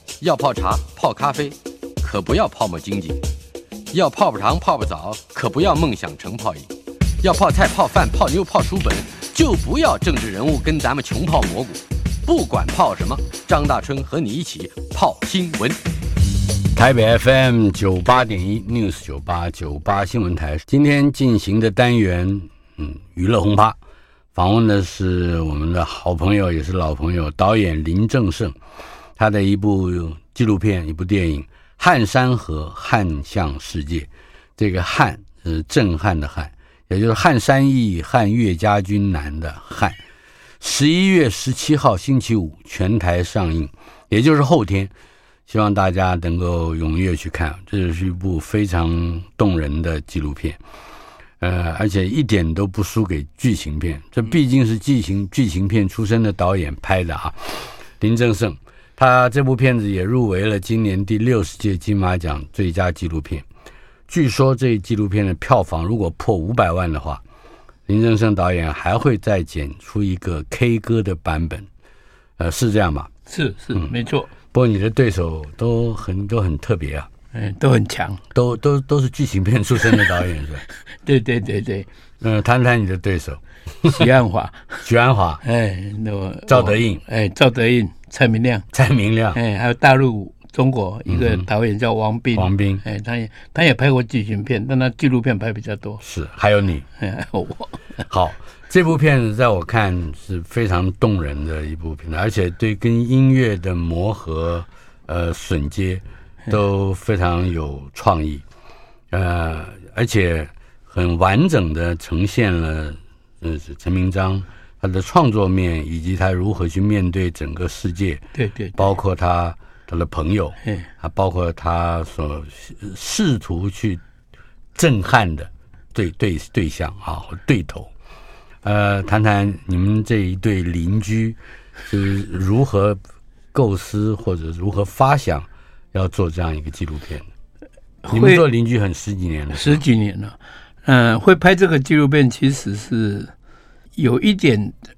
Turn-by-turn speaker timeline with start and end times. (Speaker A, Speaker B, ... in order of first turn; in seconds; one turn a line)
Speaker A: 0.2-3.2
Speaker A: 3.9-6.7
Speaker A: 7.2-15.8
Speaker B: 16.7-23.8
Speaker B: 24.3-28.6
Speaker B: 29.2-40.0
Speaker B: 40.6-44.9
Speaker B: 45.5-50.6
Speaker B: 51.4-63.5
Speaker B: 64.1-67.2
Speaker B: 67.9-71.7
Speaker B: 72.4-73.1
Speaker C: 73.3-74.3
Speaker B: 74.5-77.1
Speaker C: 77.3-78.2
Speaker B: 78.3-80.6
Speaker C: 81.0-81.9
Speaker B: 82.2-84.1
Speaker C: 83.9-84.8
Speaker B: 84.8-85.4
Speaker C: 85.4-88.7
Speaker B: 86.5-87.0
Speaker B: 88.7-89.4
Speaker C: 89.3-96.0
Speaker B: 91.1-91.5
Speaker B: 92.3-92.8
Speaker B: 96.0-96.8
Speaker C: 97.0-98.0
Speaker B: 98.1-108.4
Speaker B: 109.1-118.2
Speaker C: 118.3-118.8
Speaker B: 118.7-124.0
Speaker B: 124.7-127.9
Speaker B: 128.6-131.4
Speaker B: 131.9-133.0
Speaker B: 133.5-137.3
Speaker C: 138.0-138.4
Speaker B: 138.1-139.8
Speaker C: 139.5-143.3
Speaker C: 143.9-144.8